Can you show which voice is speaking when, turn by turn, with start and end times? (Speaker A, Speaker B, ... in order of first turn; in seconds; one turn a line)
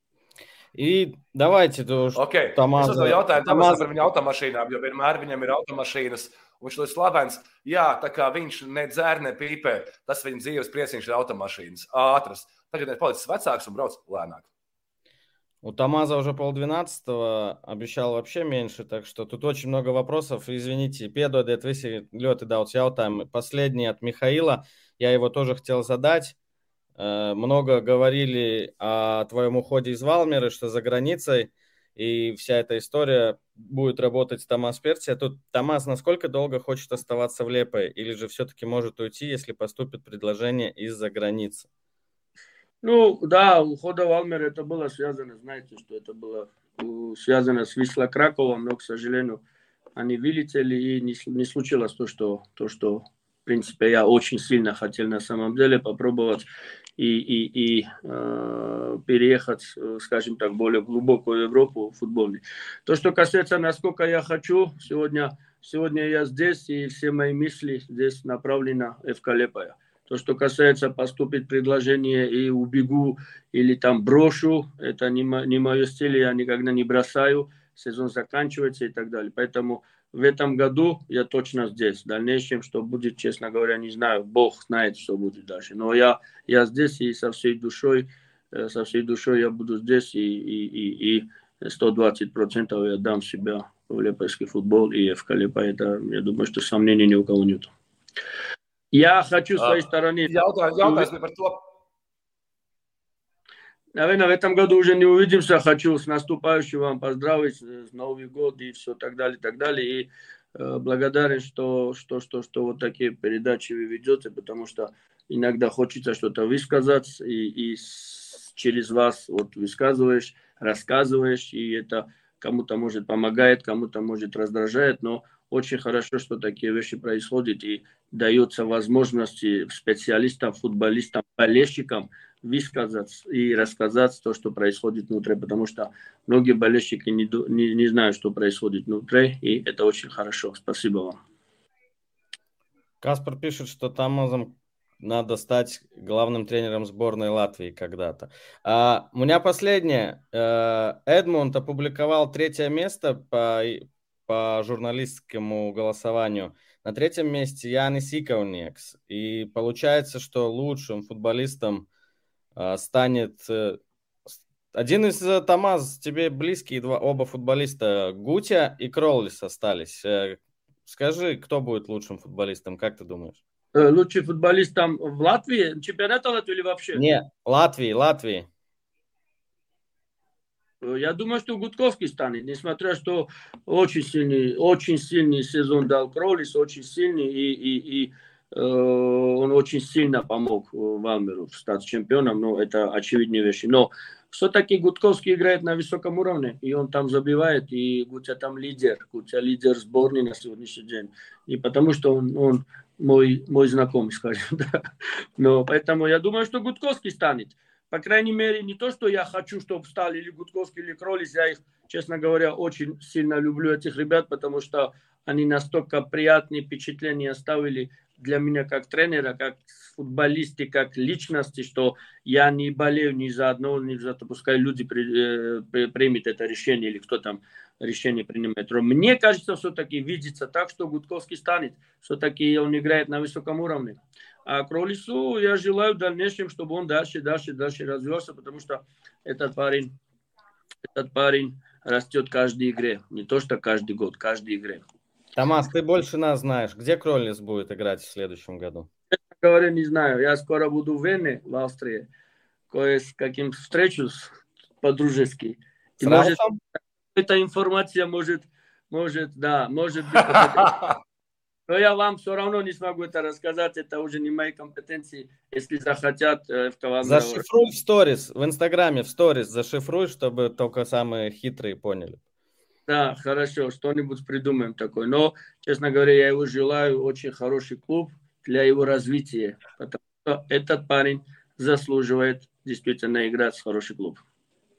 Speaker A: 0.7-4.0
Speaker B: 2.1-14.5
Speaker A: 15.6-26.4
Speaker A: 27.0-41.7
Speaker C: 42.8-49.4
Speaker C: 50.0-56.5
Speaker C: 57.0-97.7
Speaker C: 98.9-101.1
Speaker B: 99.6-101.6
Speaker C: 104.0-141.2
Speaker A: 143.0-161.9
Speaker A: 162.6-173.4
Speaker C: 173.7-177.0
Speaker A: 176.9-178.5
Speaker C: 180.8-204.7
Speaker C: 205.4-239.9
Speaker C: 240.9-244.8
Speaker A: 245.3-248.9
Speaker C: 249.3-252.1
Speaker C: 252.7-254.3
Speaker C: 254.8-256.4
Speaker A: 256.0-256.6
Speaker C: 257.1-260.8
Speaker B: 260.4-261.0
Speaker C: 261.7-267.4
Speaker A: 267.0-272.2
Speaker C: 272.9-284.2